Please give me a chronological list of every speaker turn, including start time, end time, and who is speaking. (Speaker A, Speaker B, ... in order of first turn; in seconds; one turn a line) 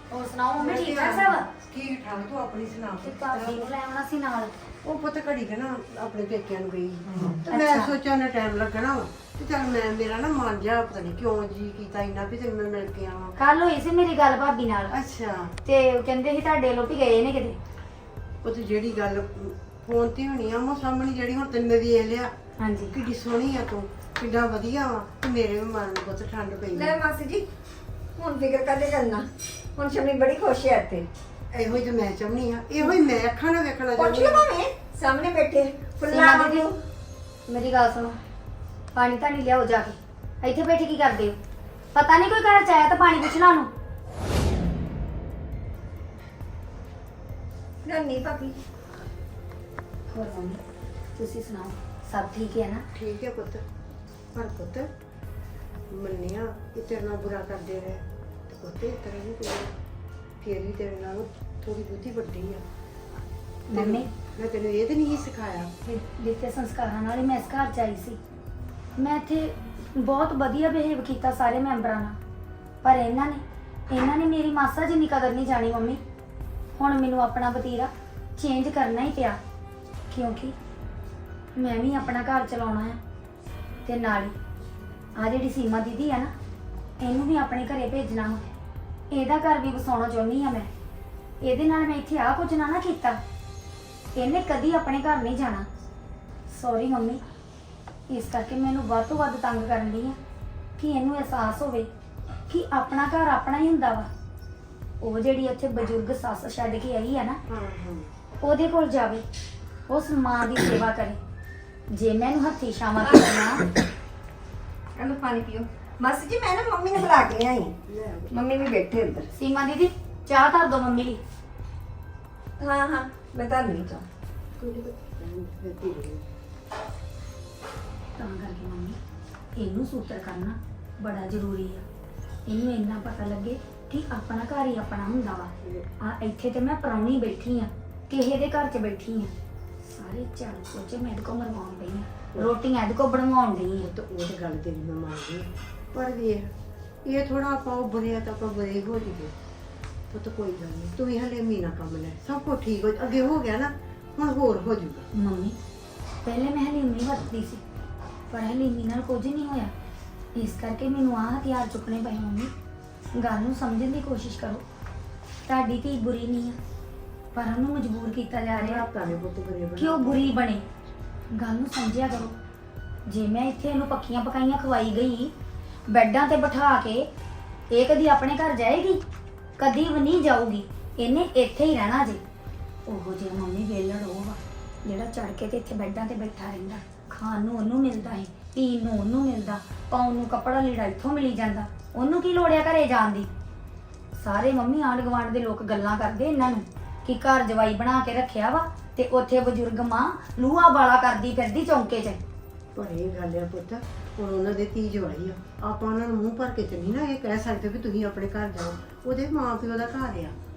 Speaker A: 0.1-1.5
Speaker B: 0.6-3.7
Speaker A: 3.0-4.5
Speaker B: 4.8-13.3
Speaker A: 7.2-8.0
Speaker A: 13.4-15.0
Speaker B: 14.9-15.5
Speaker A: 15.7-17.6
Speaker B: 18.4-22.3
Speaker A: 22.6-23.0
Speaker B: 22.9-27.0
Speaker C: 26.7-27.5
Speaker C: 28.2-31.1
Speaker B: 31.5-34.5
Speaker C: 34.0-36.8
Speaker A: 36.1-36.7
Speaker A: 37.5-38.2
Speaker A: 38.9-41.4
Speaker A: 42.0-43.7
Speaker C: 47.9-48.6
Speaker A: 50.1-50.6
Speaker A: 51.2-52.9
Speaker B: 53.0-53.6
Speaker B: 54.3-54.9
Speaker B: 55.9-59.7
Speaker B: 60.4-62.6
Speaker A: 63.7-64.1
Speaker B: 63.7-65.7
Speaker A: 65.9-68.2
Speaker A: 69.0-72.2
Speaker A: 72.8-76.0
Speaker A: 76.8-79.4
Speaker A: 80.1-80.5
Speaker A: 81.5-83.0
Speaker A: 83.9-84.3
Speaker A: 85.2-86.3
Speaker A: 87.0-88.4
Speaker A: 89.1-90.7
Speaker A: 91.4-93.2
Speaker A: 94.2-95.7
Speaker A: 96.5-97.2
Speaker A: 98.1-100.2
Speaker A: 100.8-101.9
Speaker A: 102.5-104.1
Speaker A: 105.0-107.4
Speaker B: 107.5-108.1
Speaker A: 108.4-109.2
Speaker A: 109.9-111.2
Speaker A: 111.9-113.7
Speaker C: 115.0-117.8
Speaker B: 117.9-118.3
Speaker C: 118.3-119.3
Speaker A: 119.3-121.2
Speaker C: 122.6-124.0
Speaker B: 124.6-126.2
Speaker A: 128.2-129.0
Speaker A: 129.6-131.8
Speaker A: 132.5-139.3
Speaker A: 139.8-143.9
Speaker B: 143.8-146.5
Speaker B: 147.1-149.3
Speaker B: 150.1-155.1
Speaker A: 155.2-155.6
Speaker A: 156.2-157.6
Speaker A: 158.3-159.7
Speaker A: 160.3-162.5
Speaker A: 163.2-164.6
Speaker A: 165.5-166.6
Speaker A: 167.3-168.9
Speaker B: 168.6-170.4
Speaker A: 169.8-170.6
Speaker A: 171.3-172.3
Speaker A: 173.1-175.3
Speaker A: 175.9-177.1
Speaker A: 177.7-179.0
Speaker A: 179.6-182.2
Speaker A: 182.9-193.3
Speaker A: 194.2-202.2
Speaker B: 202.8-210.3